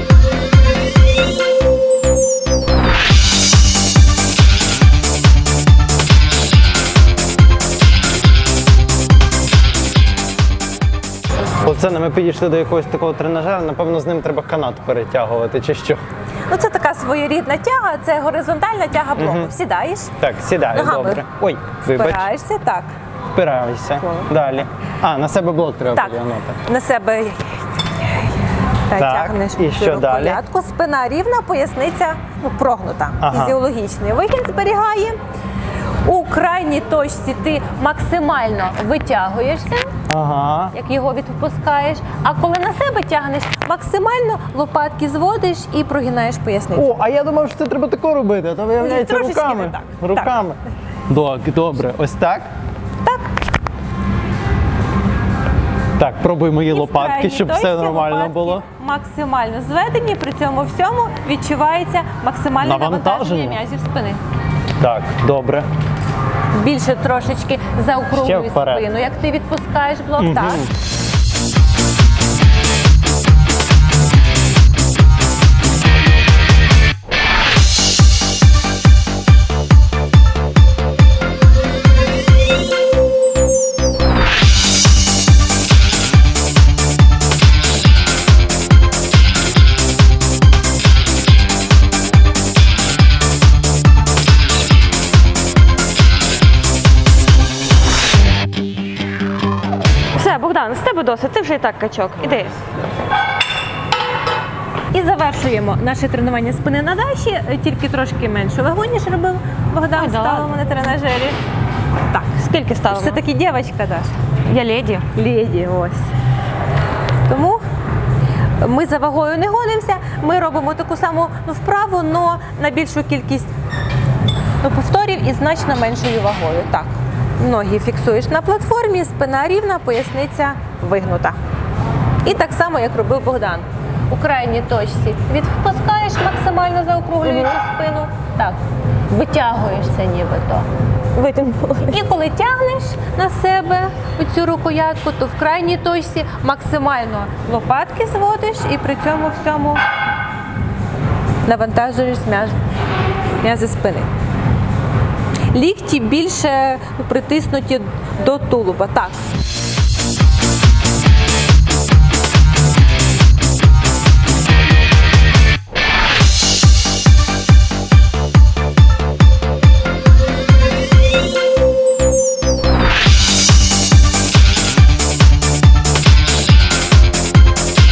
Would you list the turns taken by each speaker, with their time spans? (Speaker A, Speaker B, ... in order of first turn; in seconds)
Speaker A: 11.6-16.0, 19.2-19.5, 20.2-22.3, 23.3-26.6, 29.0-30.4, 33.2-33.6, 40.1-40.8, 46.8-52.5, 56.0-58.6, 62.6-63.6, 64.8-65.7, 68.1-68.9, 70.2-70.7
Speaker B: 16.5-20.1, 20.7-21.2, 21.9-22.9, 25.9-35.2, 36.0-39.9, 40.7-47.0, 48.8-50.4, 53.0-53.3, 56.7-64.2, 66.5-70.7, 104.9-111.4, 112.9-114.2, 115.1-116.1, 117.3-117.6, 118.6-123.5, 124.6-131.4, 132.2-138.6, 139.1-140.7, 141.8-149.8, 151.4-152.6, 153.4-154.1, 155.5-159.2
Speaker C: 100.1-102.6, 109.9-110.5, 112.4-113.2, 114.5-115.0, 137.2-137.5, 141.2-142.0